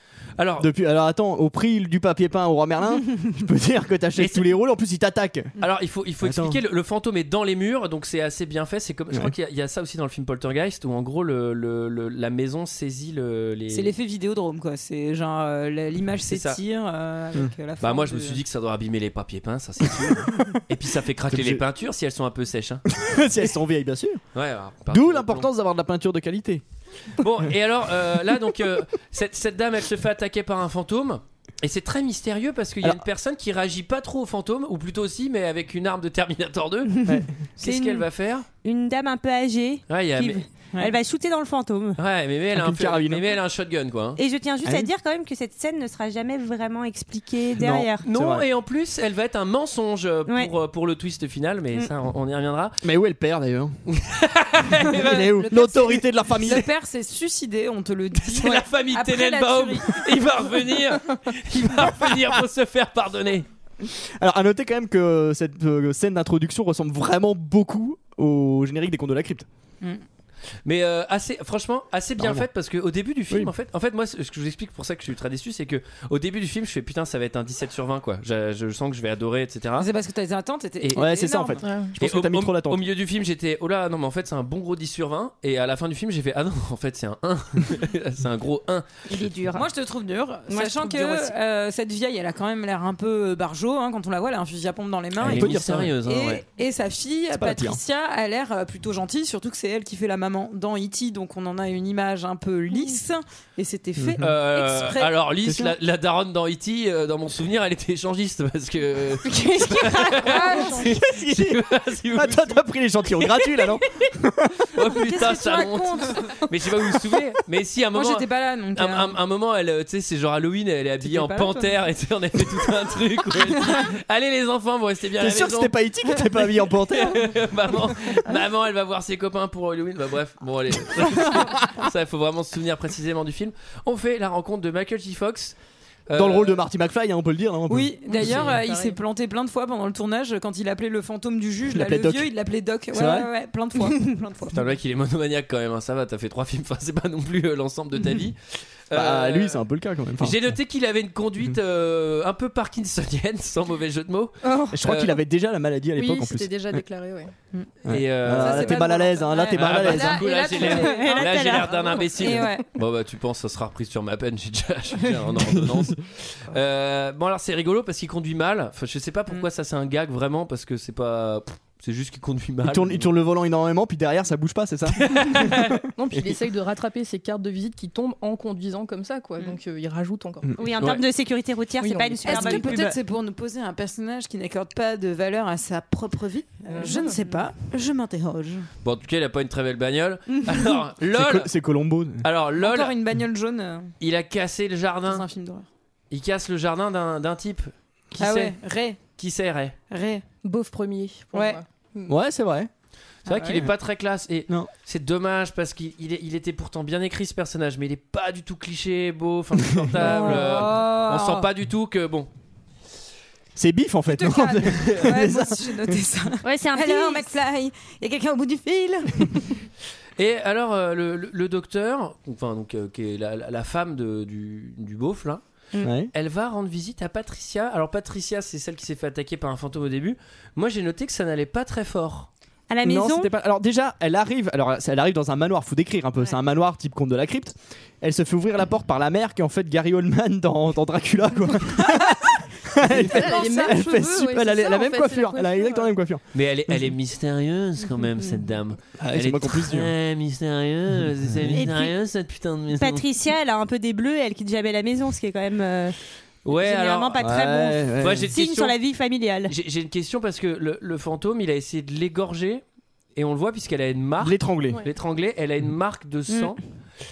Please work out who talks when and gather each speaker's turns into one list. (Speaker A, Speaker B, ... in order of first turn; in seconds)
Speaker A: 0.4-0.7, 4.2-4.5, 5.6-13.9, 16.3-16.6, 17.8-22.8, 24.3-25.5, 27.2-37.0, 37.6-38.5, 39.9-40.5, 42.0-44.2, 48.0-52.8, 53.9-55.9, 58.3-63.5, 70.6-79.9, 82.0-88.8, 95.2-96.4, 104.2-112.6, 114.7-126.2, 126.9-135.6, 136.1-136.6, 144.5-149.6, 150.2-155.2, 157.9-158.9, 159.5-173.1, 175.0-175.7, 188.8-191.5, 192.2-192.9, 194.0-195.2, 196.1-198.6, 199.2-199.7, 203.3-212.3, 220.2-225.4, 226.1-232.3, 246.3-253.1, 256.4-257.2, 258.0-258.8, 259.5-262.6, 263.1-266.6
Speaker B: 0.6-5.5, 6.2-6.6, 20.0-20.4, 21.3-21.6, 22.9-24.2, 24.9-26.6, 37.0-37.3, 42.5-43.3, 47.6-48.5, 52.8-53.8, 54.9-56.7, 63.8-69.5, 72.2-72.5, 80.9-82.8, 95.2-96.0, 97.3-97.8, 104.0-104.3, 105.4-105.8, 110.9-114.7, 125.2-127.3, 136.1-138.4, 141.7-142.3, 142.9-143.3, 148.9-150.5, 154.7-156.8, 157.8-160.7, 165.4-165.8, 172.6-176.2, 191.1-192.2, 202.1-202.7, 213.6-216.0, 225.8-226.1, 232.8-246.8, 249.0-249.9, 251.3-251.6, 257.2-258.2, 264.2-264.8
Speaker C: 13.7-18.4, 37.6-38.0, 56.4-60.2, 79.8-81.6, 89.5-105.1, 110.2-111.0, 115.0-116.3, 117.9-119.2, 121.0-121.8, 137.7-144.5, 158.3-162.7, 182.2-188.7, 192.6-193.9, 195.1-195.7, 198.2-199.0, 199.9-200.2, 201.3-201.6, 203.3-203.6, 210.0-211.5, 214.1-219.5
Speaker D: 38.6-42.0, 44.2-48.0, 50.3-50.5, 89.1-89.7, 90.5-91.3, 109.2-110.7, 160.6-161.9, 180.5-183.0, 187.0-187.3, 216.4-217.3, 232.7-233.3, 251.5-251.9, 252.7-255.9, 256.5-259.5, 266.3-266.5
Speaker E: 81.6-81.9, 154.4-154.8, 155.9-157.3, 161.8-162.1, 175.9-180.5, 181.8-182.7, 186.7-187.1, 200.4-202.1, 242.9-245.9